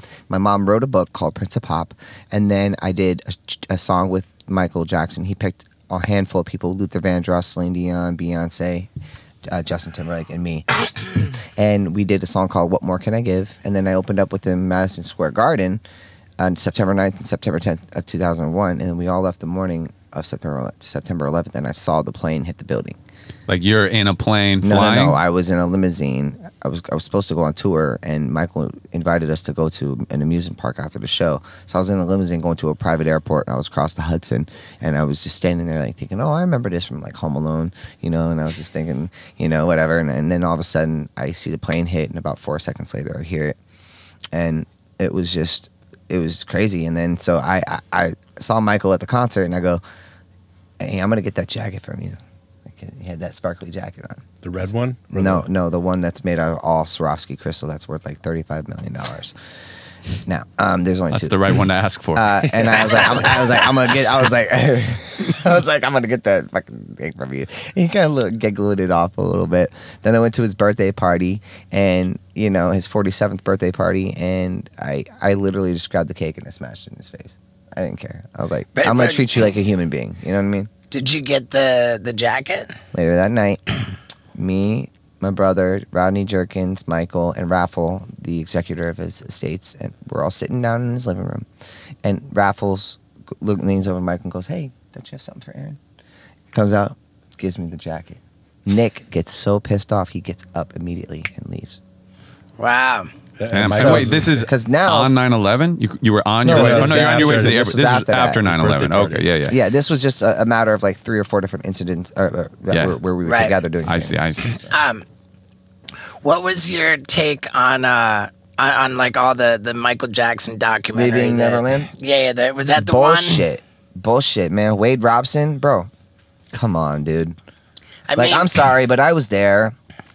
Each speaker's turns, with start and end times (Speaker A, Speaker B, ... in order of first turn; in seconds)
Speaker A: 0.3-8.9, 9.5-15.8, 16.4-23.0, 24.6-43.6, 44.3-49.8, 50.8-54.2, 55.1-59.3, 60.3-61.4, 62.1-80.7, 82.9-83.8, 84.3-91.5, 92.0-95.8, 96.5-101.8, 103.7-105.1, 106.4-108.5, 109.5-114.7, 120.9-121.9, 122.8-125.9, 126.5-127.4, 128.1-129.8
Speaker B: 23.5-25.2, 61.1-62.4, 103.5-109.6, 112.7-113.0, 113.8-114.5
Speaker C: 54.4-55.5, 103.4-104.4, 106.5-107.8, 108.5-109.3
Speaker D: 78.8-79.5, 80.9-82.8, 102.6-103.1, 113.2-113.6, 114.6-115.0, 116.2-123.5, 128.1-128.6